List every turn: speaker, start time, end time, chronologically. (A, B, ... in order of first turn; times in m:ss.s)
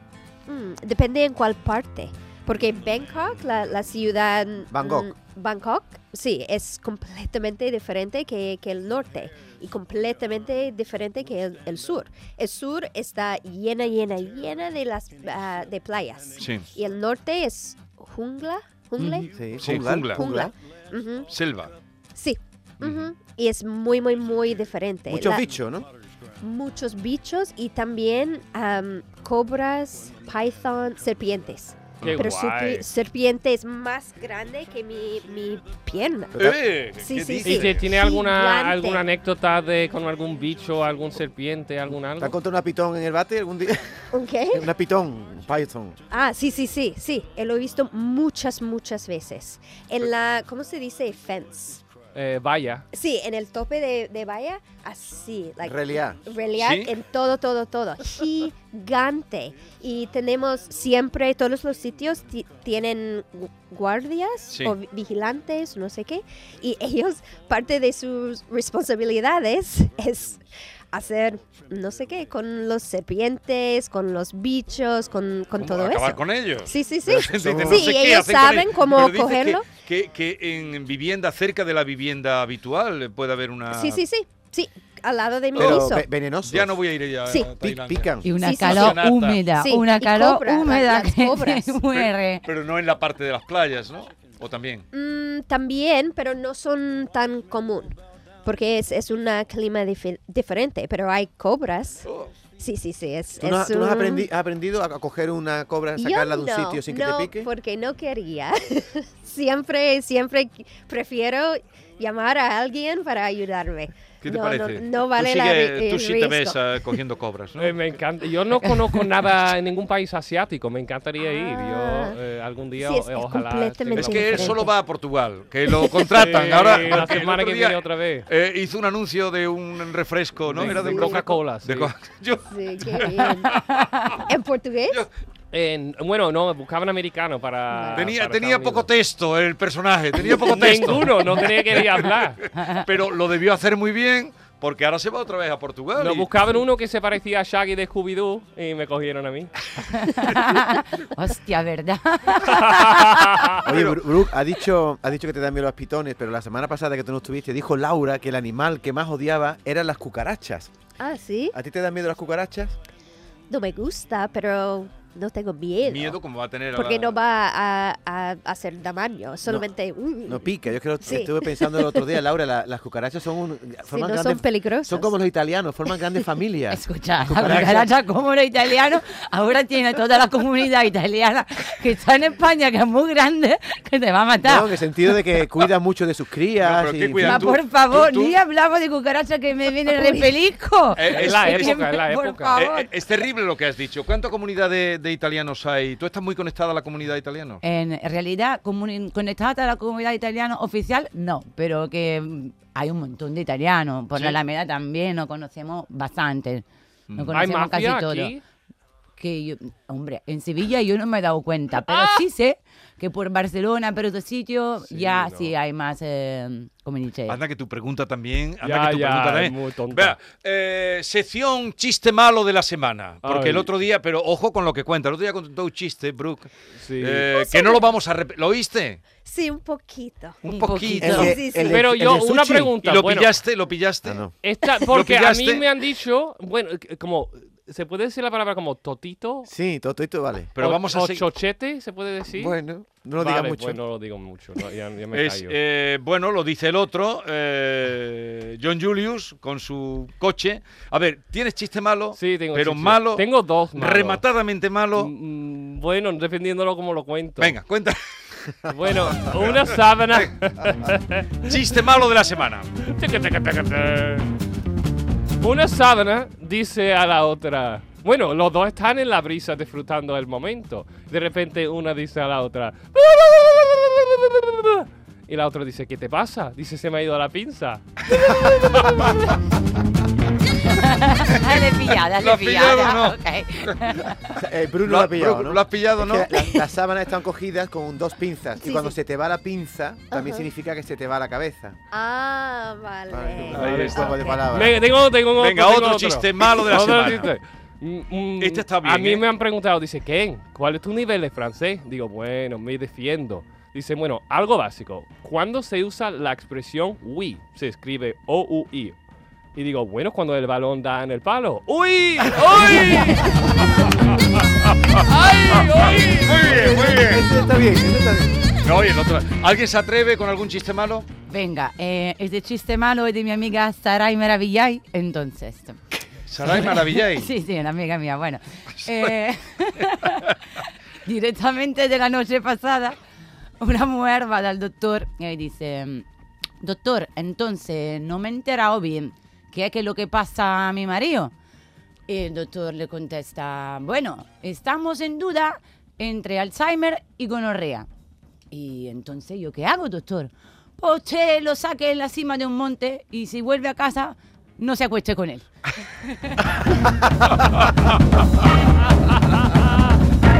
0:00.5-0:19.3 A
0:04.7-0:05.1 B
0:16.4-0:16.6 C
0:19.0-0:19.2 D
0:19.2-0:20.5 B
0:19.6-0:20.2 C
0:20.2-0:21.3 A
0:21.3-0:21.7 C
0:22.2-0:25.4 A
0:25.1-0:25.9 B
0:26.4-0:36.3 A
0:32.0-0:32.8 E
0:36.3-0:36.6 B
0:36.4-0:37.8 C
0:37.0-0:39.0 A
0:37.4-0:42.3 E
0:42.2-0:46.0 B
0:44.1-0:44.7 A
0:46.1-0:51.8 A
0:52.1-0:52.8 E
0:52.9-1:10.4 A
0:55.6-0:56.2 B
0:56.6-0:56.9 C
1:10.9-1:19.7 A
1:15.6-1:24.0 C
1:17.3-1:17.9 B
1:23.7-1:26.0 A
1:25.5-1:25.9 C
1:25.5-1:26.8 B
1:26.4-1:29.4 C
1:27.5-1:28.3 B
1:28.2-1:32.4 D
1:28.4-1:31.8 A
1:31.9-1:34.8 C
1:34.9-1:42.0 A
1:42.6-1:44.3 A
1:43.4-1:47.5 B
1:46.0-1:57.0 A
1:54.2-1:57.7 C
1:57.6-2:04.6 E
1:58.6-1:59.1 D
2:01.2-2:02.2 A
2:02.8-2:04.8 A
2:03.9-2:14.2 C
2:05.7-2:06.0 A
2:06.1-2:08.3 E
2:10.5-2:11.9 E
2:10.6-2:11.2 A
2:12.5-2:13.6 A
2:13.7-2:14.0 D
2:14.2-2:15.0 A
2:15.5-2:18.9 E
2:17.7-2:18.1 A
2:17.9-2:26.3 C
2:20.2-2:22.4 E
2:22.6-2:22.9 D
2:26.0-2:29.5 E
2:29.9-2:33.2 D
2:32.4-2:33.6 E
2:33.6-2:34.0 C
2:33.6-2:40.7 B
2:41.0-2:41.5 A
2:41.5-2:42.8 B
2:43.5-2:46.2 A
2:45.8-2:47.2 C
2:46.7-2:50.5 A
2:50.2-2:57.9 B
2:51.0-2:52.1 A
2:53.9-2:55.1 A
2:56.7-3:04.7 D
3:04.4-3:07.5 B
3:06.6-3:08.4 C
3:07.2-3:12.9 D
3:11.0-3:11.8 C
3:11.1-3:12.6 E
3:12.5-3:17.6 C
3:17.6-3:26.6 D
3:27.1-3:27.4 C
3:27.1-3:28.4 D
3:27.3-3:28.4 E
3:29.2-3:37.4 D
3:31.8-3:32.2 E
3:34.9-3:35.5 E
3:37.3-3:49.0 C
3:38.6-3:40.2 E
3:43.2-3:43.7 E
3:46.8-3:47.3 E
3:47.3-3:47.9 A
3:49.2-3:50.4 A
3:50.4-3:51.4 C
3:50.4-3:51.4 D
3:51.0-3:52.7 B
3:51.1-3:51.8 A
3:51.6-3:53.3 E
3:52.8-3:54.2 C
3:54.0-3:54.3 B
3:54.4-3:59.5 E
3:54.9-3:55.6 C
3:59.4-4:00.5 B
4:00.6-4:01.3 C
4:00.6-4:02.6 E
4:02.3-4:03.8 B
4:03.2-4:05.5 E
4:05.1-4:15.1 C
4:12.1-4:14.2 E
4:15.0-4:17.6 E
4:17.4-4:18.0 C
4:18.6-4:21.6 E
4:18.9-4:20.3 C
4:21.4-4:22.7 C
4:22.8-4:24.3 E
4:25.4-4:37.8 E
4:38.2-4:38.7 B
4:40.6-4:44.2 D
4:41.3-4:41.6 C
4:42.2-4:44.0 C
4:44.3-4:51.8 B
4:44.8-4:46.3 C
4:48.6-4:48.9 A
4:50.1-4:50.5 A
4:51.9-4:54.5 A
4:53.1-4:54.8 B
4:53.5-4:54.2 C
4:53.6-5:09.0 E
4:55.4-4:57.3 C
4:58.4-4:59.2 C
5:09.5-5:13.8 E
5:14.9-5:16.4 E
5:16.1-5:17.3 C
5:16.3-5:18.5 B
5:18.6-5:21.1 C
5:21.3-5:25.8 D
5:26.3-5:27.3 C
5:26.4-5:33.0 D
5:28.8-5:29.1 C
5:33.6-5:36.0 D
5:36.6-5:41.3 D
5:42.1-5:47.9 D
5:48.5-5:55.5 D
5:56.0-5:56.4 D
5:57.3-5:57.9 C
5:59.0-5:59.9 E